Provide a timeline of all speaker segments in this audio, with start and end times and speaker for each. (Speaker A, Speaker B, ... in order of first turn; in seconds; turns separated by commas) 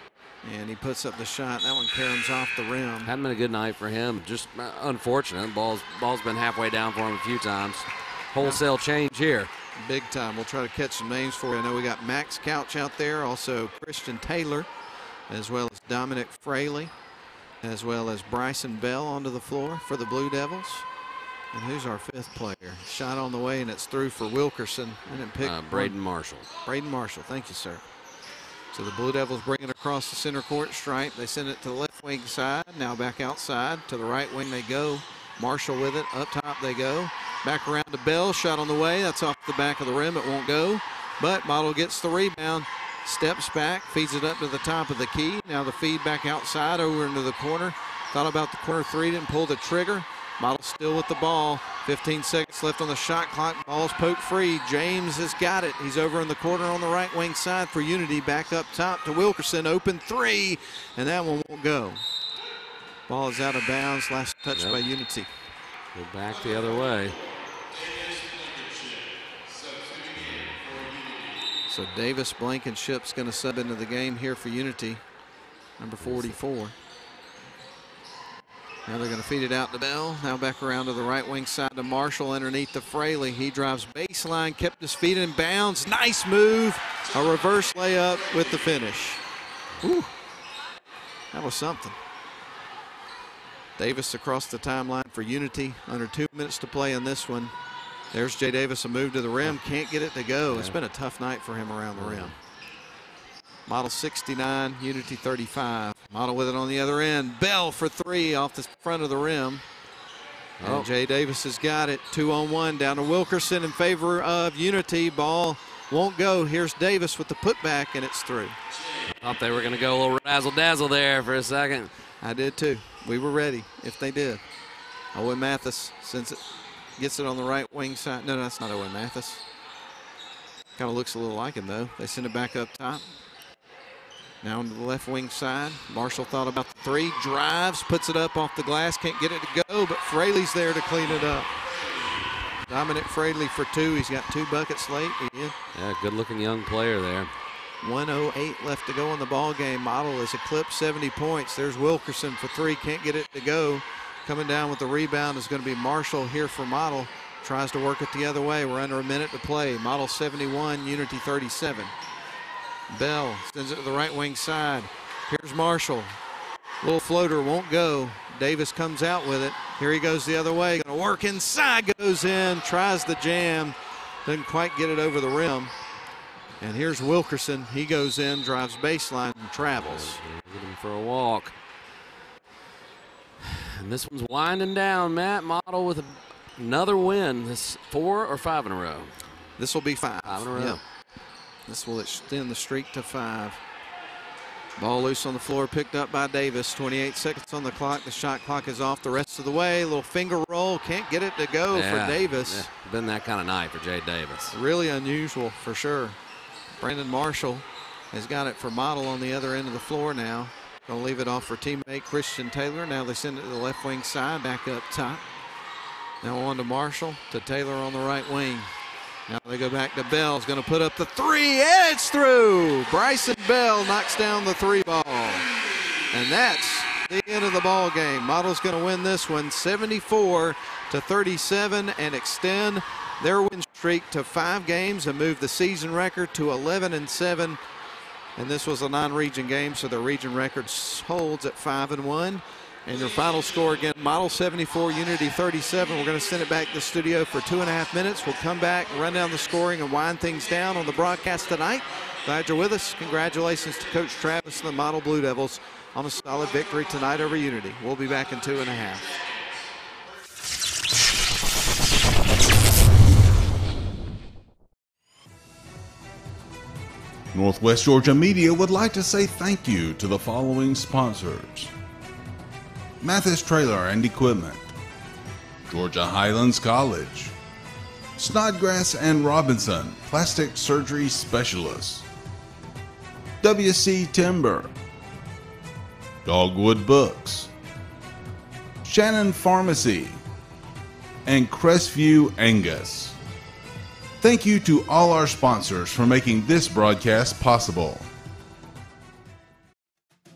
Speaker A: 0.4-3.1, Speaker B: 3.0-9.5, Speaker A: 9.8-14.7, Speaker A: 15.3-16.9, Speaker A: 17.6-20.9, Speaker A: 21.5-25.9, Speaker B: 25.4-26.5, Speaker A: 26.6-27.8, Speaker A: 28.7-62.0, Speaker A: 63.1-65.3, Speaker B: 66.0-67.2, Speaker B: 70.1-70.8, Speaker A: 71.7-75.0, Speaker A: 75.8-76.8, Speaker B: 76.0-76.3, Speaker A: 78.9-89.2, Speaker A: 89.8-90.1, Speaker A: 91.3-92.0, Speaker A: 93.8-97.5, Speaker A: 98.1-102.3, Speaker B: 100.5-100.8, Speaker B: 102.0-102.3, Speaker A: 103.7-109.6, Speaker B: 110.6-110.9, Speaker A: 110.6-118.6, Speaker B: 119.1-121.9, Speaker A: 122.2-124.4, Speaker A: 125.1-126.5, Speaker A: 127.0-129.4, Speaker A: 130.8-133.0, Speaker A: 134.4-141.5, Speaker A: 142.7-145.6, Speaker B: 145.8-147.3, Speaker A: 147.8-161.9, Speaker A: 162.9-166.2, Speaker A: 166.8-175.7, Speaker A: 176.6-180.2, Speaker B: 179.8-181.5, Speaker B: 183.4-189.2, Speaker A: 189.6-190.8, Speaker B: 190.2-190.8, Speaker A: 191.7-193.6, Speaker A: 194.8-202.7, Speaker B: 201.7-204.5, Speaker A: 204.5-206.2, Speaker A: 206.8-215.2, Speaker A: 216.2-218.7, Speaker A: 219.3-225.5, Speaker A: 226.1-237.6, Speaker A: 238.4-259.1, Speaker C: 267.3-271.7, Speaker C: 273.0-274.7, Speaker C: 275.7-277.4, Speaker C: 278.2-282.1, Speaker C: 283.4-284.7, Speaker C: 286.2-287.5, Speaker C: 288.8-290.2, Speaker C: 291.2-293.2, Speaker C: 294.2-298.1